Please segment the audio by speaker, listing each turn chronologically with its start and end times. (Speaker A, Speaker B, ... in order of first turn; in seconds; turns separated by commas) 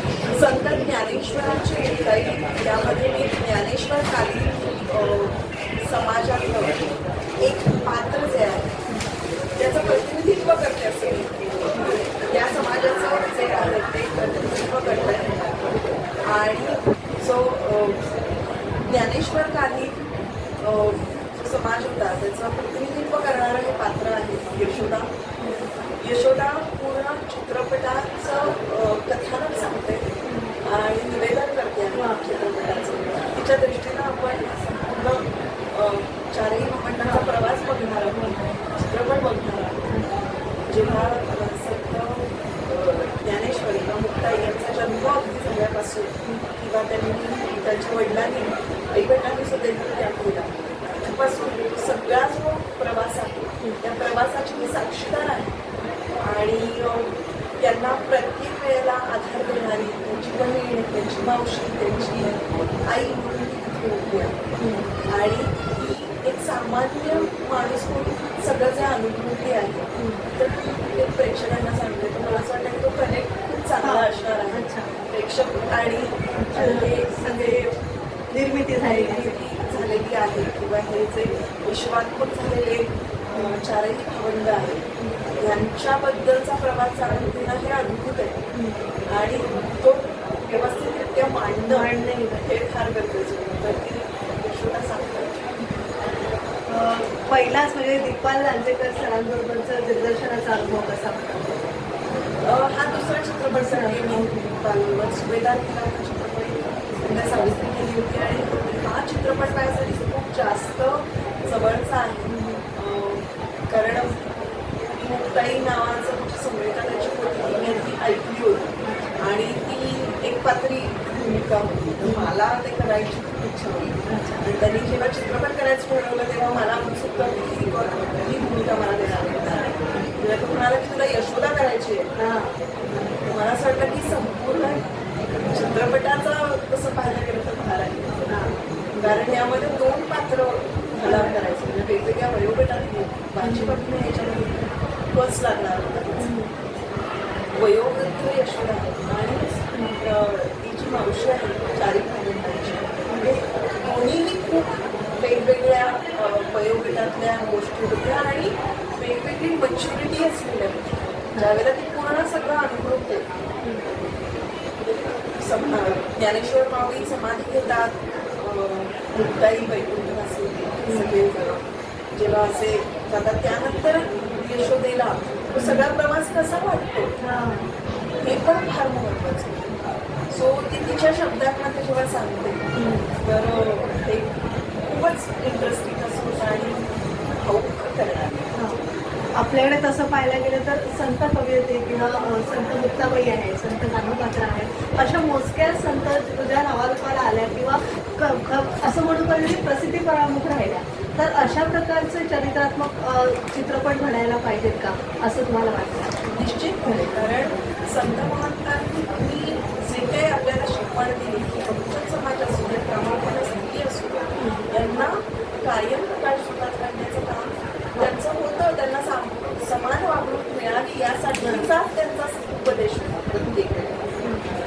Speaker A: 0.3-6.8, Speaker A: 7.4-8.7, Speaker A: 9.6-15.7, Speaker A: 16.2-18.1, Speaker A: 18.8-20.1, Speaker A: 20.6-25.1, Speaker B: 24.8-25.7, Speaker A: 26.0-30.1, Speaker B: 30.3-30.6, Speaker A: 30.6-39.9, Speaker B: 31.9-32.2, Speaker B: 38.2-38.5, Speaker B: 39.9-40.2, Speaker A: 40.7-55.6, Speaker A: 56.2-64.4, Speaker B: 64.6-65.0, Speaker A: 65.1-77.8, Speaker B: 70.0-70.3, Speaker B: 73.8-74.9, Speaker B: 76.4-77.6, Speaker B: 78.3-79.3, Speaker A: 78.8-84.8, Speaker B: 83.3-83.6, Speaker A: 85.4-88.4, Speaker B: 88.5-88.9, Speaker A: 89.1-95.5, Speaker B: 91.7-92.5, Speaker B: 95.6-95.8, Speaker B: 96.7-101.6, Speaker A: 102.4-114.3, Speaker B: 103.5-104.5, Speaker B: 112.3-112.6, Speaker A: 115.0-132.1, Speaker B: 118.8-119.2, Speaker B: 122.0-122.3, Speaker B: 124.1-124.4, Speaker B: 132.2-133.3, Speaker A: 133.3-134.9, Speaker A: 135.5-138.2, Speaker B: 138.3-139.3, Speaker A: 139.0-146.3, Speaker B: 141.0-141.3, Speaker B: 143.4-143.8, Speaker B: 146.2-146.5, Speaker A: 147.5-163.3, Speaker B: 149.7-150.0, Speaker B: 153.1-153.4, Speaker B: 163.6-163.9, Speaker A: 164.8-177.1, Speaker B: 170.9-171.2, Speaker B: 175.6-175.8, Speaker B: 177.2-177.7, Speaker A: 178.2-179.8, Speaker A: 180.3-182.6, Speaker B: 182.8-183.1, Speaker A: 183.2-184.3, Speaker A: 184.9-188.5, Speaker B: 189.4-207.2, Speaker A: 206.3-224.2, Speaker B: 214.4-214.7, Speaker B: 221.4-221.7, Speaker B: 224.2-224.5